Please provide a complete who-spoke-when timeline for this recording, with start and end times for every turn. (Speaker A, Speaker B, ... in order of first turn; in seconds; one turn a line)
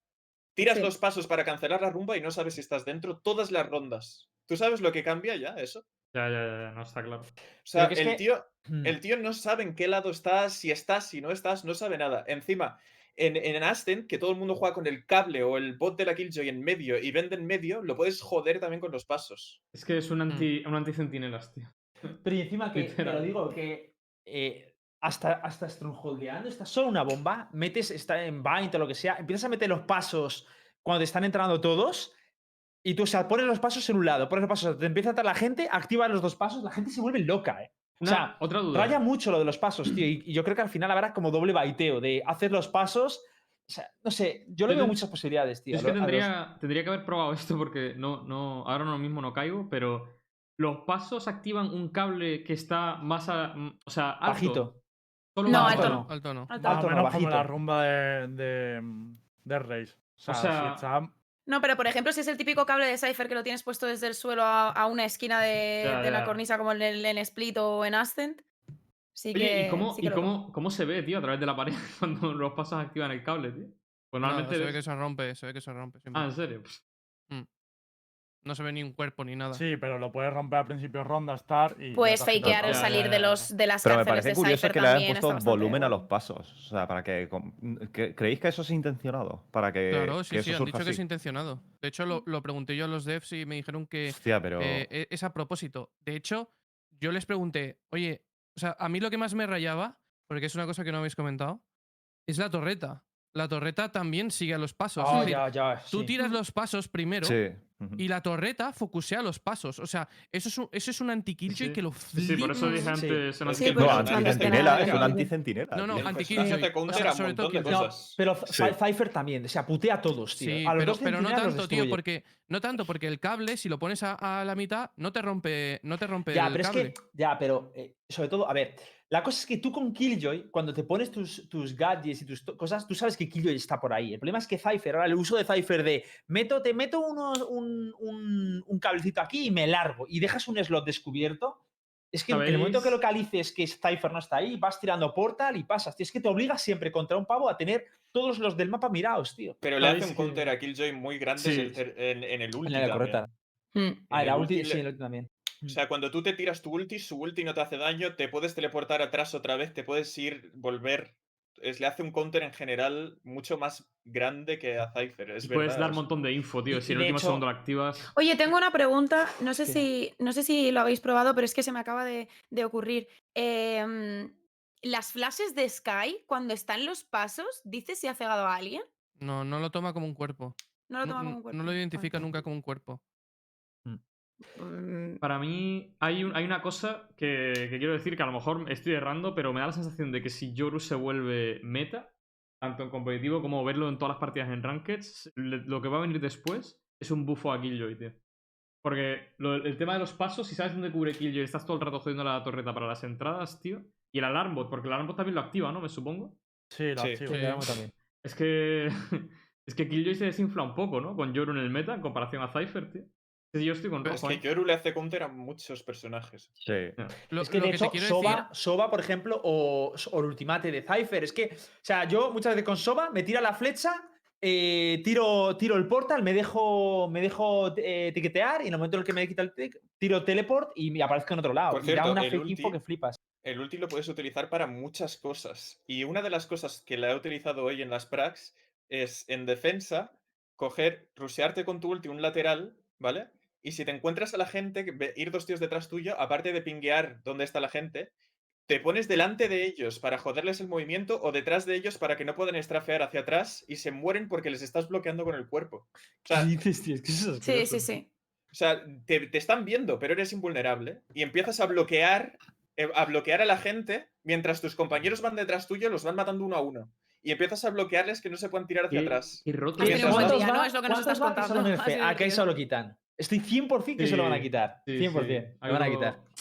Speaker A: 0.6-5.8
Speaker B: 0.6-0.9
Speaker C: 6.1-7.3
Speaker A: 7.7-19.6
Speaker D: 7.7-8.9
Speaker C: 19.7-21.7
Speaker D: 22.2-32.1
Speaker C: 22.7-23.2
Speaker D: 32.8-46.3
Speaker C: 38.0-39.0
Speaker C: 44.6-45.0
Speaker C: 45.7-54.7
Speaker D: 54.2-54.8
Speaker C: 55.3-56.0
Speaker B: 55.5-56.9
Speaker D: 55.5-57.5
Speaker E: 55.6-56.5
Speaker F: 56.5-61.1
Speaker C: 60.2-60.8
Speaker B: 61.5-68.4
Speaker C: 65.8-66.4
Speaker B: 69.1-70.3
Speaker C: 69.3-74.8
Speaker E: 74.2-76.3
Speaker C: 76.1-76.8
Speaker E: 78.4-79.6
Speaker F: 79.5-83.1
Speaker B: 81.9-86.0
Speaker C: 82.5-83.5
Speaker G: 83.8-91.0
Speaker E: 89.9-101.6
Speaker G: 94.1-94.8
Speaker E: 102.3-107.4
Speaker D: 105.0-106.1
Speaker B: 105.0-105.4
Speaker G: 107.2-108.0
Speaker E: 108.0-112.8
Speaker C: 111.5-114.4
Speaker B: 112.5-113.0
Speaker D: 112.9-114.1
Speaker A: 113.5-115.2
Speaker B: 113.5-115.3
Speaker G: 113.8-116.5
Speaker E: 115.7-118.0
Speaker A: 115.9-118.2
Speaker D: 117.7-122.0
Speaker G: 118.5-118.8
Speaker E: 120.4-127.0
Speaker D: 126.3-149.6
Speaker C: 142.3-143.0
Speaker A: 149.6-153.2
Speaker C: 149.8-150.5
Speaker C: 151.4-151.8
Speaker D: 152.7-153.3
Speaker B: 153.7-154.1
Speaker D: 154.1-155.8
Speaker A: 154.1-154.8
Speaker A: 155.7-166.0
Speaker C: 165.4-168.1
Speaker D: 166.7-167.4
Speaker B: 168.1-178.8
Speaker D: 169.6-169.8
Speaker E: 179.2-183.0
Speaker B: 180.9-182.3
Speaker B: 184.5-185.2
Speaker C: 185.2-198.2
Speaker C: 198.8-206.4
Speaker F: 206.7-207.5
Speaker A: 207.0-207.2
Speaker E: 207.3-207.6
Speaker D: 207.3-207.9
Speaker C: 208.2-214.4
Speaker A: 214.1-216.5
Speaker G: 216.6-217.0
Speaker E: 217.3-218.5
Speaker D: 217.4-233.2
Speaker A: 231.7-232.8
Speaker A: 233.4-248.1
Speaker A: 248.7-256.5
Speaker C: 256.3-257.9
Speaker B: 257.4-258.1
Speaker A: 258.5-270.4
Speaker C: 268.9-270.4
Speaker B: 269.8-272.5
Speaker D: 269.8-276.2
Speaker C: 274.0-276.2